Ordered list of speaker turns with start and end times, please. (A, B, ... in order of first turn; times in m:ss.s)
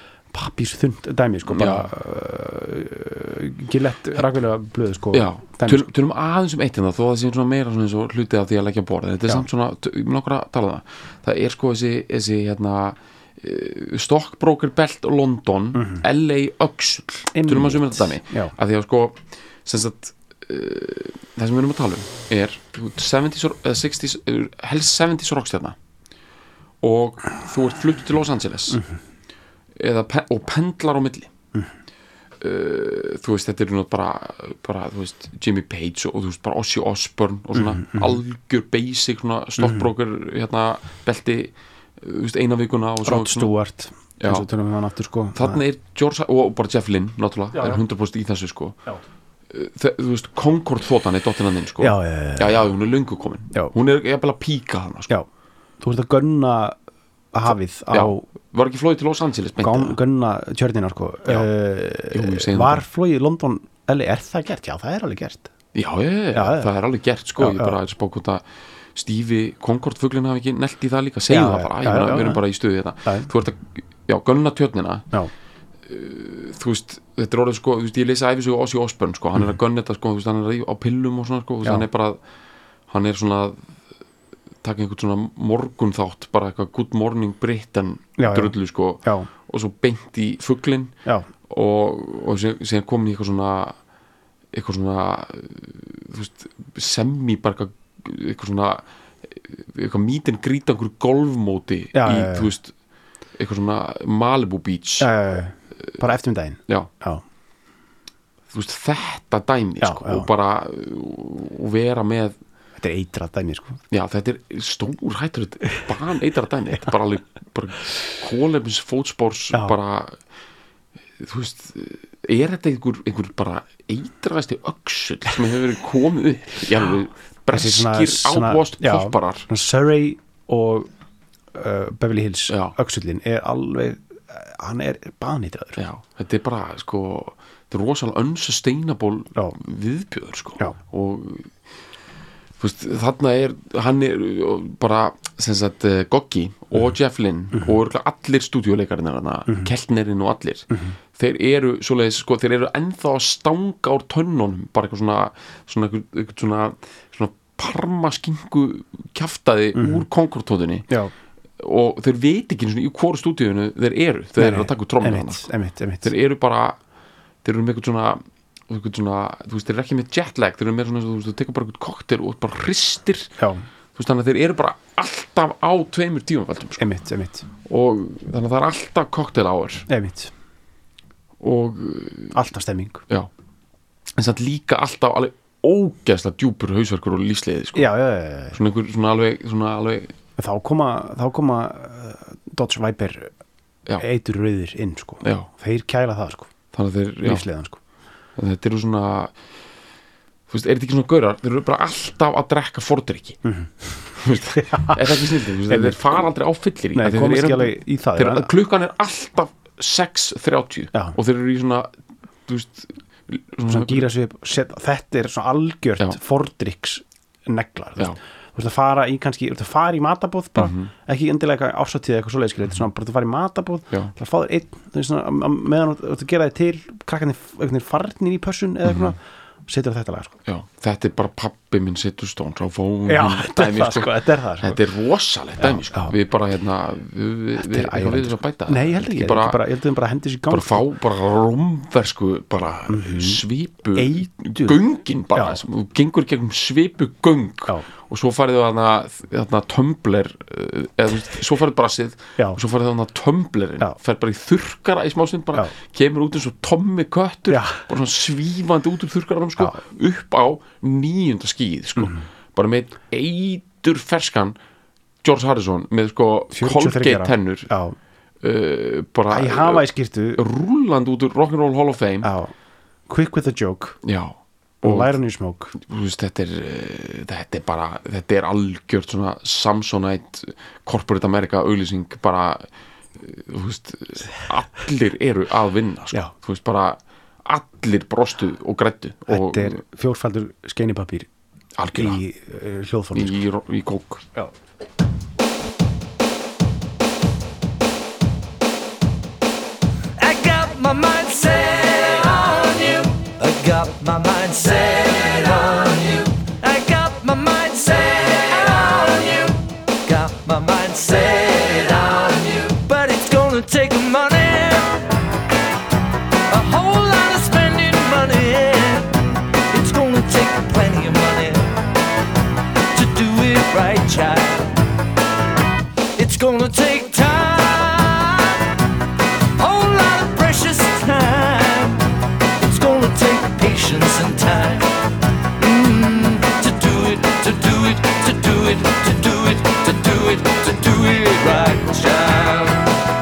0:00.3-0:05.9 A
0:01.5-0:01.9 B
0:05.1-0:25.8 B
0:15.7-0:16.0 A
0:17.3-0:18.6 A
0:26.8-0:28.8 B
0:29.8-0:31.3 B
0:32.4-0:43.5 B
0:37.5-0:38.2 A
0:39.6-0:39.9 A
0:43.0-0:45.6 A
0:44.2-0:44.5 B
0:45.4-0:48.8 B
0:47.5-0:47.8 A
0:49.5-0:55.1 B
0:51.8-0:52.7 A
0:55.8-0:56.8 A
0:57.3-0:58.2 A
0:57.9-1:00.0 B
0:59.6-1:05.5 A
1:02.1-1:02.8 B
1:05.7-1:08.4 B
1:06.3-1:06.7 A
1:07.4-1:07.8 A
1:09.0-1:15.1 B
1:11.3-1:12.4 A
1:15.9-1:22.2 B
1:22.9-1:23.6 B
1:24.6-1:30.9 B
1:28.2-1:29.3 A
1:31.5-1:33.8 B
1:34.5-1:42.7 B
1:41.9-1:42.5 A
1:43.4-1:45.1 B
1:45.0-1:47.2 A
1:48.5-1:52.4 B
1:49.8-1:50.3 A
1:52.8-1:53.8 A
1:53.9-2:00.2 B
2:01.2-2:09.5 B
2:07.5-2:10.9 A
2:11.5-2:15.8 A
2:12.5-2:12.8 B
2:15.8-2:21.5 B
2:22.6-2:40.9 B
2:39.8-2:40.1 A
2:41.6-2:45.5 B
2:44.4-2:46.1 A
2:46.0-2:46.8 B
2:47.4-2:53.3 B
2:53.4-2:53.6 A
2:54.0-2:56.8 B
2:56.8-2:57.5 A
2:57.6-2:59.9 B
2:59.9-3:00.3 A
3:01.4-3:02.4 B
3:02.3-3:03.0 A
3:04.2-3:07.9 B
3:07.8-3:08.6 A
3:08.5-3:10.1 B
3:10.4-3:13.3 A
3:14.0-3:16.5 A
3:15.2-3:15.5 B
3:16.7-3:17.4 B
3:17.2-3:17.8 A
3:18.4-3:19.3 B
3:20.5-3:23.4 B
3:23.4-3:23.7 A
3:24.2-3:31.9 B
3:24.7-3:25.0 A
3:25.7-3:26.2 A
3:27.0-3:28.5 A
3:32.5-3:34.1 B
3:33.7-3:50.4 A
3:40.6-3:40.9 B
3:50.5-3:59.6 B
3:53.1-3:54.8 A
3:55.6-3:56.2 A
3:57.6-4:00.9 A
4:00.5-4:24.6 B
4:02.9-4:03.4 A
4:04.0-4:04.8 A
4:05.3-4:05.6 A
4:17.5-4:17.8 A
4:22.0-4:22.3 A
4:25.2-4:27.7 B
4:26.5-4:28.0 A
4:28.4-4:32.3 B
4:29.3-4:30.4 A
4:32.2-4:32.5 A
4:33.1-4:34.0 A
4:34.0-4:35.1 B
4:34.8-4:35.7 A
4:35.7-4:42.6 B
4:43.2-4:49.8 B
4:49.3-4:51.3 A
4:51.8-4:52.2 B
4:52.0-4:53.4 A
4:53.1-4:54.3 B
5:00.2-5:15.1 C
5:16.5-5:21.7 C
5:22.9-5:24.8 C
5:26.2-5:28.8 C
5:29.6-5:35.0 C
5:35.6-5:43.0 C